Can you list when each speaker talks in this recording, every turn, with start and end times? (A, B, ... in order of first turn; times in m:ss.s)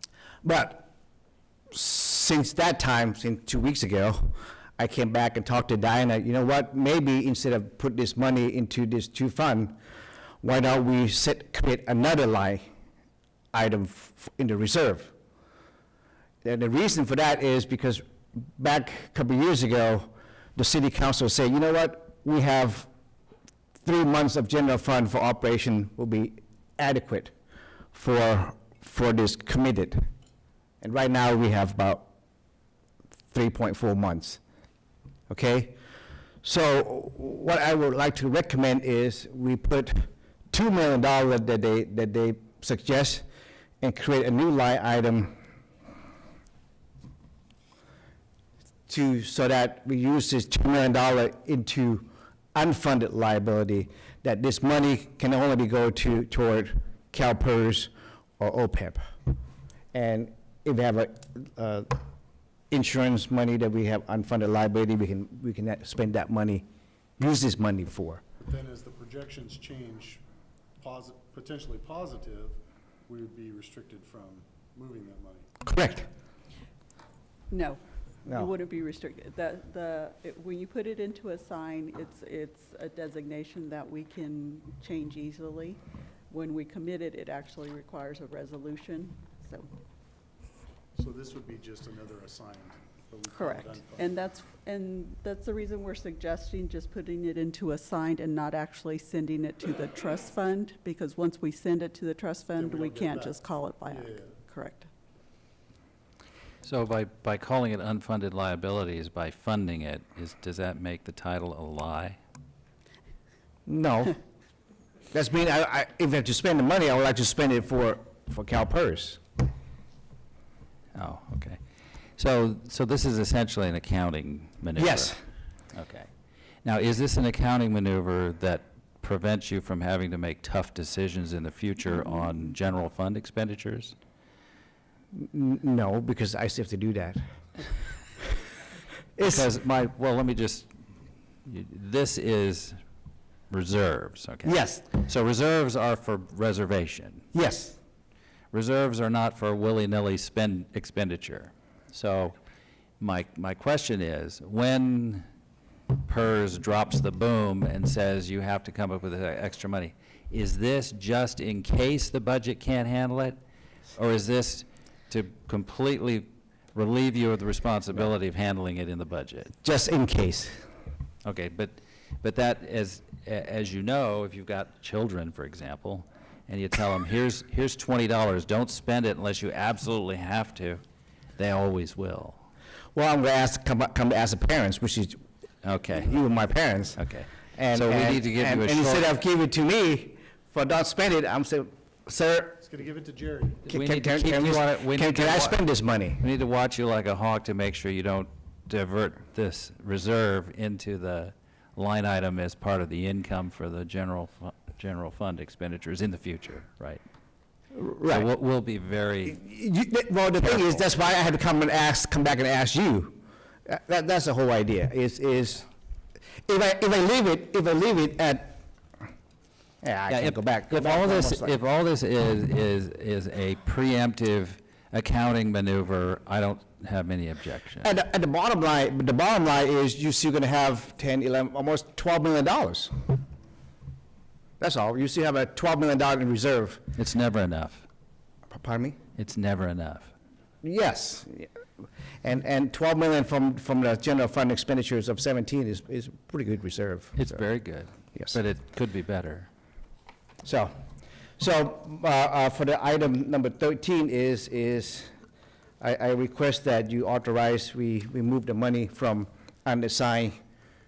0:00.4-0:00.9 A
0:01.7-0:09.8 A
0:10.4-0:12.6 A
0:13.5-0:15.1 A
0:16.4-0:18.0 A
0:18.6-0:22.9 A
0:23.8-0:27.3 A
0:27.9-0:30.0 A
0:30.8-0:32.1 A
0:33.3-0:34.4 A
0:35.3-0:35.8 A
0:36.4-0:43.2 A
0:43.8-0:45.3 A
0:48.9-0:59.0 A
0:59.9-1:02.0 A
1:02.7-1:06.6 A
1:07.2-1:08.2 A
1:08.4-1:10.2 B
1:10.8-1:15.5 B
1:15.6-1:16.1 A
1:17.5-1:29.7 C
1:31.0-1:34.2 B
1:33.3-1:44.9 C
1:42.6-1:44.3 B
1:46.6-1:52.2 D
1:53.7-1:54.2 A
1:55.1-1:59.2 A
2:00.9-2:01.6 D
2:02.2-2:05.2 D
2:04.8-2:05.2 A
2:05.7-2:06.1 D
2:06.6-2:13.9 D
2:15.1-2:17.2 A
2:19.2-2:19.4 A
2:19.2-2:20.7 D
2:21.4-2:22.8 D
2:23.5-2:27.2 D
2:24.4-2:24.8 A
2:27.3-2:27.8 A
2:28.5-2:32.4 D
2:33.0-2:35.2 D
2:36.0-2:43.4 D
2:44.0-2:49.5 D
2:49.6-2:50.6 A
2:51.2-3:00.8 D
3:01.4-3:02.4 D
3:02.9-3:05.2 A
3:05.6-3:06.2 D
3:05.9-3:07.0 A
3:07.0-3:09.1 D
3:07.5-3:12.6 A
3:12.6-3:13.6 B
3:13.6-3:15.6 D
3:13.7-3:16.2 A
3:16.2-3:27.0 D
3:27.7-3:28.3 A
3:28.1-3:29.4 D
3:29.3-3:35.6 A
3:30.4-3:30.8 D
3:36.4-3:38.6 A
3:39.8-3:41.6 A
3:40.1-3:47.9 D
3:47.8-3:52.9 A
3:54.6-3:56.9 A
3:56.9-3:57.8 D
3:58.5-3:59.0 A
3:59.2-4:00.1 D
4:00.6-4:01.5 A
4:02.2-4:07.4 A
4:07.2-4:09.5 D
4:10.4-4:10.8 A
4:11.4-4:15.1 A
4:15.8-4:20.4 A